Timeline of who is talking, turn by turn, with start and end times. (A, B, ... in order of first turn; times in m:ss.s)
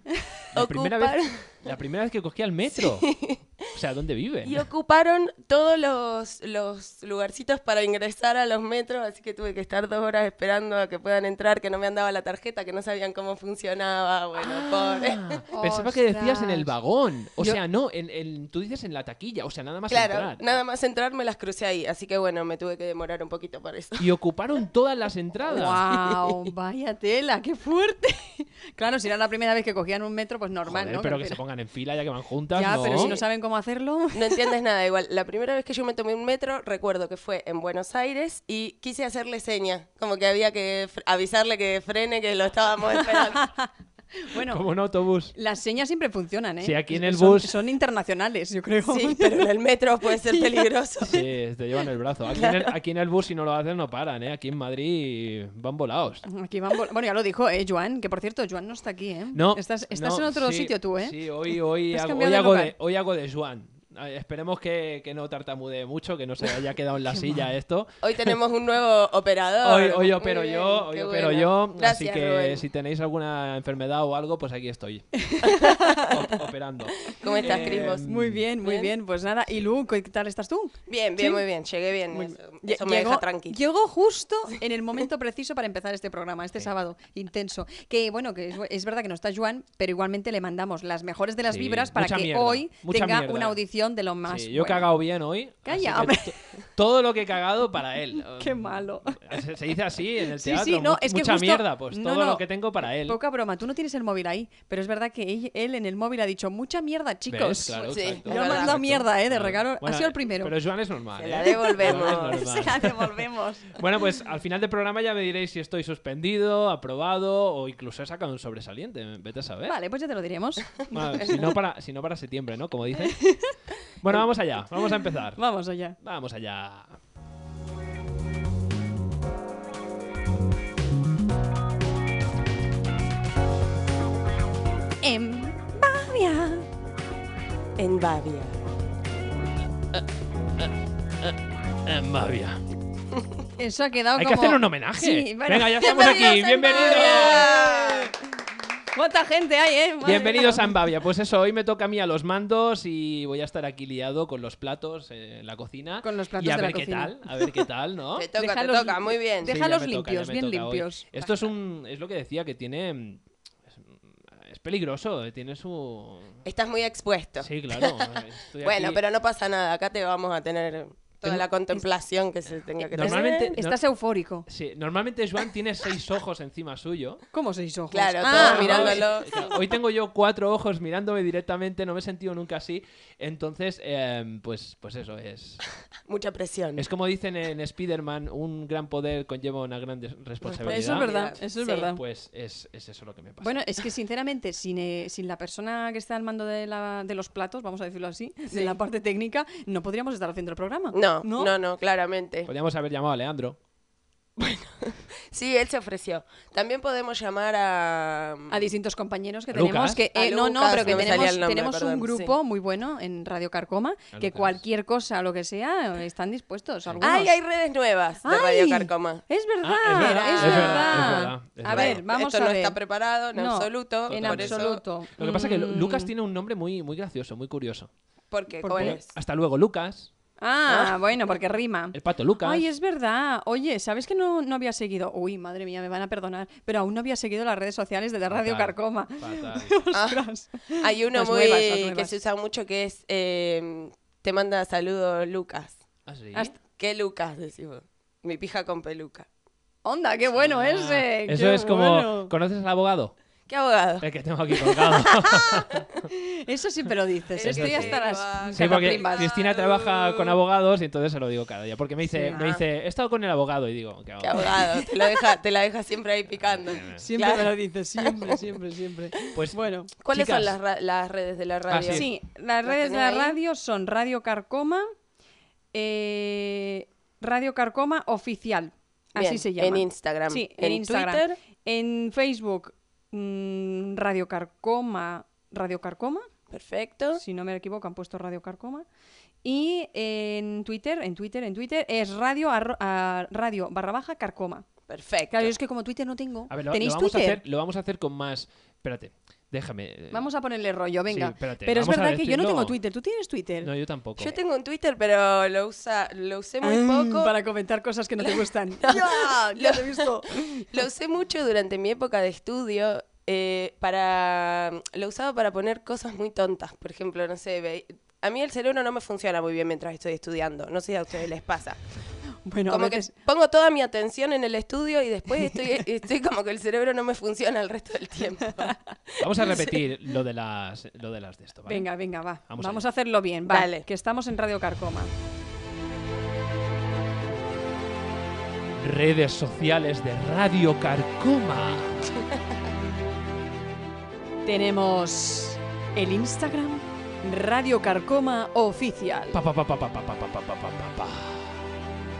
0:00.5-0:01.6 A
0:00.5-0:03.1 B
0:02.7-0:03.4 A
0:03.7-0:04.7 B
0:04.4-0:15.4 A
0:14.4-0:20.6 B
0:15.5-0:16.7 C
0:19.9-0:24.1 A
0:24.0-0:25.8 B
0:25.5-0:31.4 C
0:30.7-0:33.1 B
0:32.5-0:34.4 C
0:32.9-0:33.2 A
0:34.1-0:43.4 A
0:43.0-0:44.6 C
0:44.3-0:45.3 B
0:45.4-0:49.4 C
0:46.6-0:47.6 B
0:48.9-0:51.2 A
0:50.2-0:51.2 C
0:51.0-0:56.2 B
0:52.3-0:52.7 A
0:56.3-1:01.2 C
0:59.3-1:08.3 B
1:01.9-1:02.7 C
1:08.0-1:12.6 A
1:09.6-1:15.3 B
1:15.2-1:16.1 C
1:15.4-1:16.1 A
1:16.1-1:18.4 B
1:17.0-1:18.1 A
1:17.6-1:21.4 C
1:18.6-1:18.9 A
1:20.9-1:23.6 A
1:22.1-1:34.9 C
1:31.5-1:33.6 B
1:34.3-1:43.2 B
1:35.6-1:36.4 C
1:38.4-1:39.4 C
1:40.3-1:42.4 C
1:43.0-1:50.5 C
1:47.3-1:59.8 B
1:47.7-1:48.9 A
1:51.2-1:52.5 A
1:51.8-1:53.8 C
1:59.7-2:00.8 C
2:00.9-2:03.3 B
2:03.2-2:03.6 C
2:04.0-2:05.4 B
2:05.4-2:06.0 C
2:06.0-2:07.0 B
2:15.0-2:16.7 C
2:17.8-2:18.6 A
2:19.9-2:22.6 B
2:23.6-2:26.1 C
2:24.2-2:27.6 B
2:25.8-2:28.1 A
2:26.6-2:28.1 C
2:29.0-2:30.7 C
2:30.0-2:38.3 B
2:36.0-2:37.2 C
2:38.2-2:39.5 A
2:38.4-2:41.2 C
2:39.4-2:46.4 B
2:46.4-2:53.6 A
2:47.4-2:49.0 B
2:52.5-2:53.8 B
2:52.8-2:54.5 C
2:54.5-2:57.2 B
2:57.3-2:59.1 C
2:57.9-2:59.5 A
2:58.2-3:05.6 B
3:06.1-3:06.9 A
3:06.8-3:11.1 B
3:10.4-3:11.9 A
3:10.6-3:12.0 C
3:11.8-3:13.6 B
3:13.4-3:21.5 C
3:20.9-3:22.5 A
3:22.5-3:23.6 B
3:24.4-3:28.7 A
3:28.5-3:37.3 C
3:29.5-3:30.0 B
3:30.1-3:32.4 A
3:30.7-3:31.4 B
3:34.1-3:34.6 B
3:36.9-3:37.3 B
3:37.0-3:39.2 A
3:38.2-3:42.8 C
3:39.6-3:42.0 B
3:39.9-3:41.2 A
3:41.7-3:44.8 A
3:43.4-3:46.1 C
3:44.1-3:47.9 B
3:48.3-3:49.1 A
3:48.6-3:49.0 C
3:48.8-3:50.1 B
3:50.4-4:02.1 C
3:50.7-3:51.0 A
3:51.9-3:52.7 B
3:58.3-3:59.8 B
3:59.9-4:05.8 A
4:06.1-4:06.5 B
4:06.7-4:09.3 A
4:09.8-4:12.3 C
4:10.3-4:13.2 B
4:13.5-4:14.1 A
4:14.0-4:15.9 B
4:14.7-4:15.8 A
4:16.1-4:19.3 C
4:17.4-4:20.4 A
4:17.4-4:24.6 B
4:22.1-4:22.6 A
4:24.2-4:28.4 A
4:26.4-4:27.0 B
4:27.0-4:29.9 C
4:29.3-4:30.6 B
4:30.0-4:32.1 A
4:31.7-4:32.1 B
4:31.9-4:34.9 C
4:32.6-4:33.4 A
4:35.7-4:46.3 C
4:39.2-4:41.4 A
4:46.5-4:47.2 A
4:47.2-4:48.8 C
4:49.4-4:54.7 C
4:54.9-4:55.6 A
4:55.3-4:57.4 C
4:56.5-5:00.3 B
5:00.1-5:03.7 C
5:01.1-5:02.8 B
5:03.6-5:04.4 B
5:04.2-5:07.4 A
5:06.6-5:10.7 C
5:08.2-5:21.8 A
5:22.4-5:23.1 C
5:22.7-5:29.8 A
5:29.2-5:31.9 B
5:31.7-5:35.1 C
5:32.5-5:32.8 B
5:33.5-5:33.9 A
5:38.8-5:42.2 B
5:44.4-5:49.4 C
5:49.3-5:51.6 B